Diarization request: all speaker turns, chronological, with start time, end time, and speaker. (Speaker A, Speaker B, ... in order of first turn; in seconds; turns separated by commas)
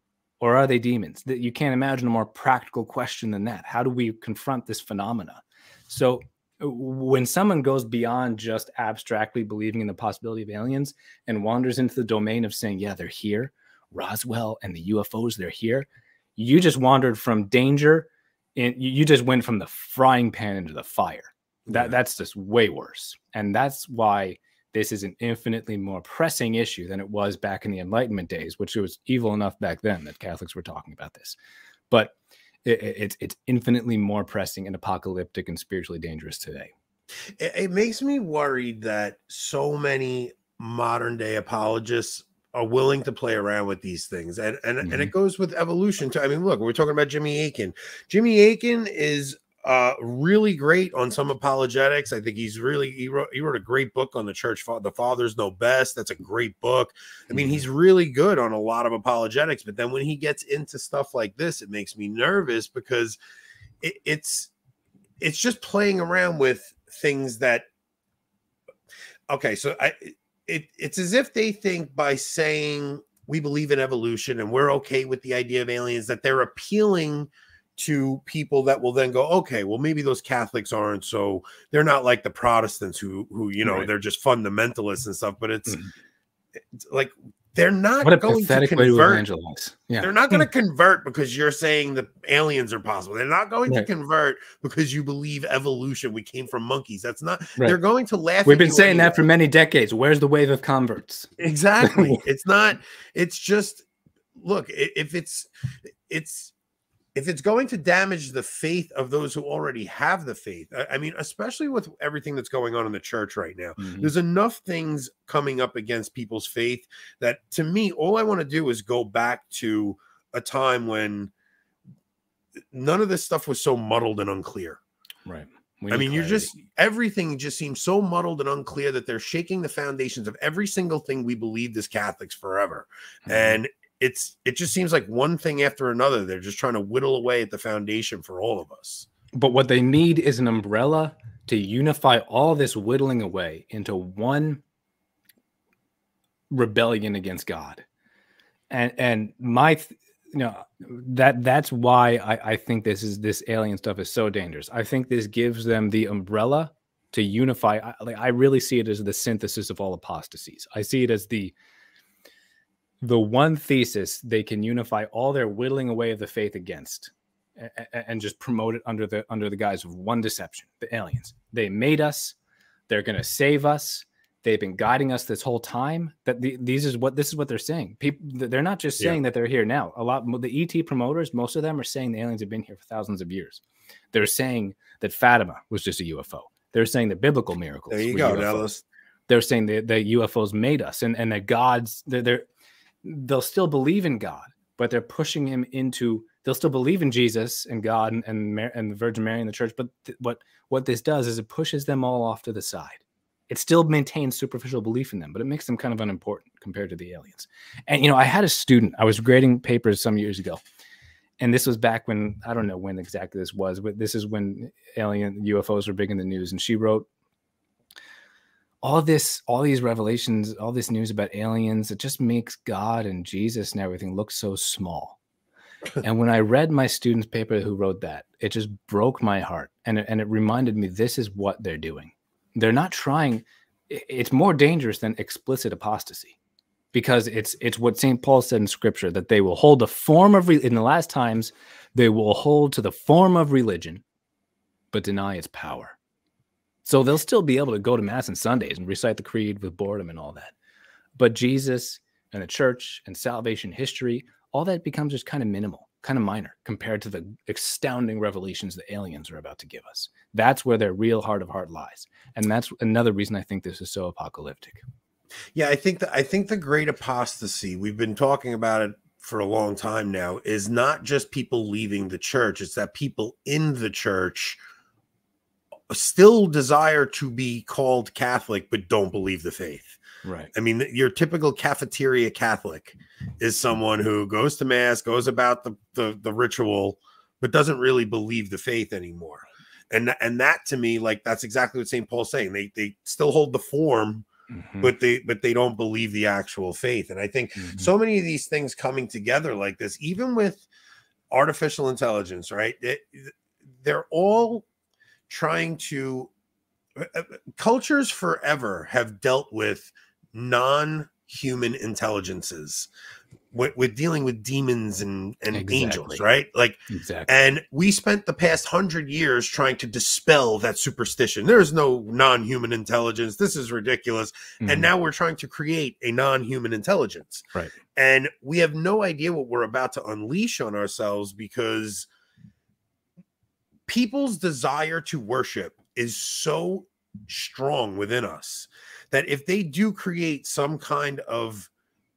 Speaker A: 0.4-15.9, Speaker A: 16.4-31.4, Speaker B: 21.7-21.9, Speaker A: 31.9-36.7, Speaker B: 37.4-63.2, Speaker A: 44.8-45.1, Speaker B: 63.8-64.5, Speaker B: 65.2-67.7, Speaker B: 69.3-85.8, Speaker A: 83.6-83.9, Speaker A: 85.7-85.9, Speaker B: 86.7-89.2, Speaker A: 88.0-90.1, Speaker B: 90.0-99.2, Speaker A: 98.5-101.3, Speaker B: 101.4-106.5, Speaker A: 101.8-102.2, Speaker B: 107.2-121.3, Speaker A: 113.8-114.1, Speaker B: 122.7-124.8, Speaker A: 125.3-126.5, Speaker B: 125.9-139.1, Speaker A: 133.3-133.6, Speaker A: 139.3-144.6, Speaker A: 146.5-147.8, Speaker A: 148.7-161.5, Speaker A: 163.0-172.3, Speaker A: 172.9-183.6, Speaker A: 184.1-188.7, Speaker B: 187.9-188.8, Speaker A: 189.3-192.5, Speaker A: 193.0-210.6, Speaker A: 211.4-217.1, Speaker A: 218.8-225.2, Speaker A: 226.0-236.4, Speaker A: 236.9-244.0, Speaker A: 244.9-246.0, Speaker A: 246.8-250.5, Speaker A: 251.2-264.8, Speaker B: 265.6-274.6, Speaker B: 275.9-280.0, Speaker A: 280.2-280.5, Speaker B: 280.5-294.3, Speaker A: 294.5-294.9, Speaker B: 294.8-300.7, Speaker A: 297.6-297.9, Speaker B: 301.3-304.7, Speaker B: 305.3-306.3, Speaker B: 307.0-312.9, Speaker B: 313.5-332.1, Speaker A: 315.5-316.2, Speaker A: 316.9-317.3, Speaker A: 324.6-324.9, Speaker B: 333.9-341.7